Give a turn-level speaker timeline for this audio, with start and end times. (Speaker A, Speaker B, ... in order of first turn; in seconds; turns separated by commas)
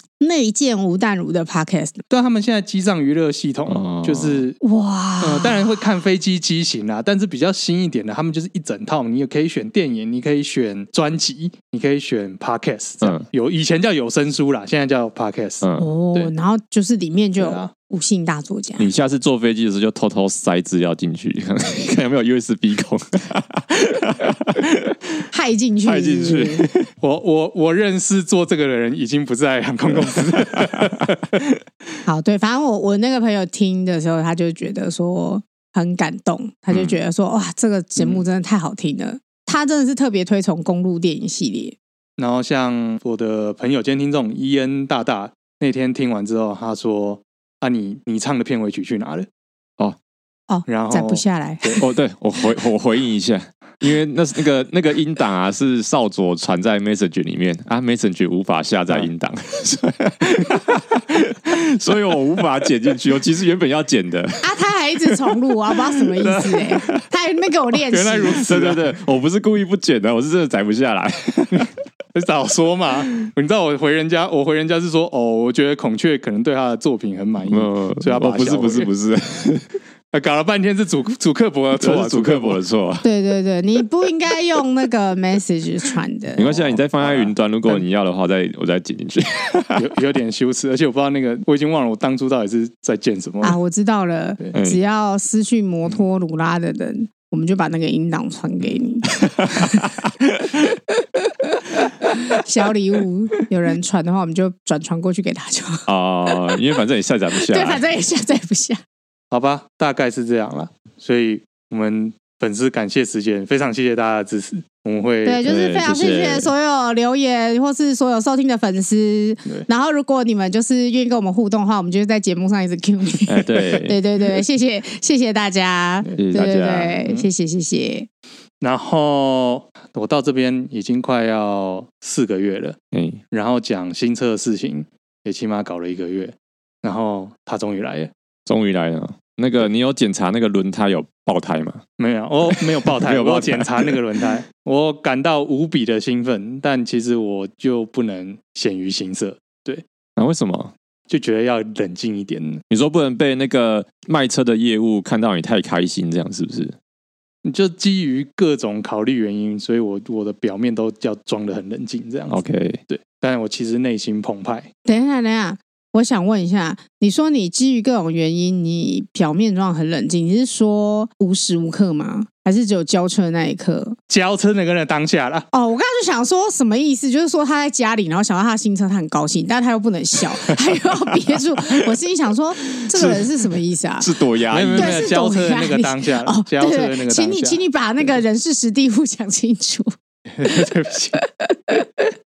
Speaker A: 0.2-2.0, Speaker B: 2.1-4.6, Speaker C: 3.7-4.4, Speaker A: 4.6-5.8, Speaker B: 5.2-16.3, Speaker C: 15.6-15.9, Speaker A: 15.8-18.9, Speaker B: 17.4-17.7, Speaker C: 18.8-25.2, Speaker A: 25.3-26.6, Speaker C: 25.9-26.9, Speaker B: 27.0-31.5, Speaker C: 30.4-30.9, Speaker A: 32.0-41.8, Speaker C: 36.7-37.0, Speaker B: 42.2-49.3, Speaker A: 50.5-51.8, Speaker B: 50.7-51.8, Speaker C: 51.8-64.5, Speaker A: 64.4-68.4, Speaker B: 66.2-66.6, Speaker B: 67.9-68.9, Speaker C: 68.4-71.7, Speaker B: 71.5-78.9, Speaker C: 77.5-79.7, Speaker B: 80.1-82.6, Speaker C: 81.8-83.0, Speaker A: 83.0-86.6, Speaker C: 86.4-89.8, Speaker B: 86.5-87.8, Speaker B: 89.8-93.6, Speaker A: 93.4-99.9, Speaker C: 99.4-100.0, Speaker A: 101.0-106.6, Speaker C: 105.9-107.8, Speaker A: 107.4-108.8, Speaker B: 109.3-115.4, Speaker A: 115.2-128.1, Speaker C: 115.4-116.5, Speaker C: 123.3-124.0, Speaker C: 126.2-127.0, Speaker B: 128.6-132.8, Speaker C: 132.9-133.2, Speaker B: 133.3-138.1, Speaker C: 138.5-141.8, Speaker B: 142.0-149.8, Speaker C: 142.5-144.0, Speaker C: 150.2-150.7, Speaker B: 151.1-152.6, Speaker C: 152.7-156.8, Speaker B: 157.4-164.7, Speaker C: 162.3-162.8, Speaker A: 164.8-174.0, Speaker B: 174.1-175.5, Speaker A: 175.5-184.1, Speaker C: 182.9-183.3, Speaker C: 184.0-185.0, Speaker B: 184.5-188.1, Speaker A: 184.7-189.9, Speaker B: 190.3-191.2, Speaker A: 191.2-191.8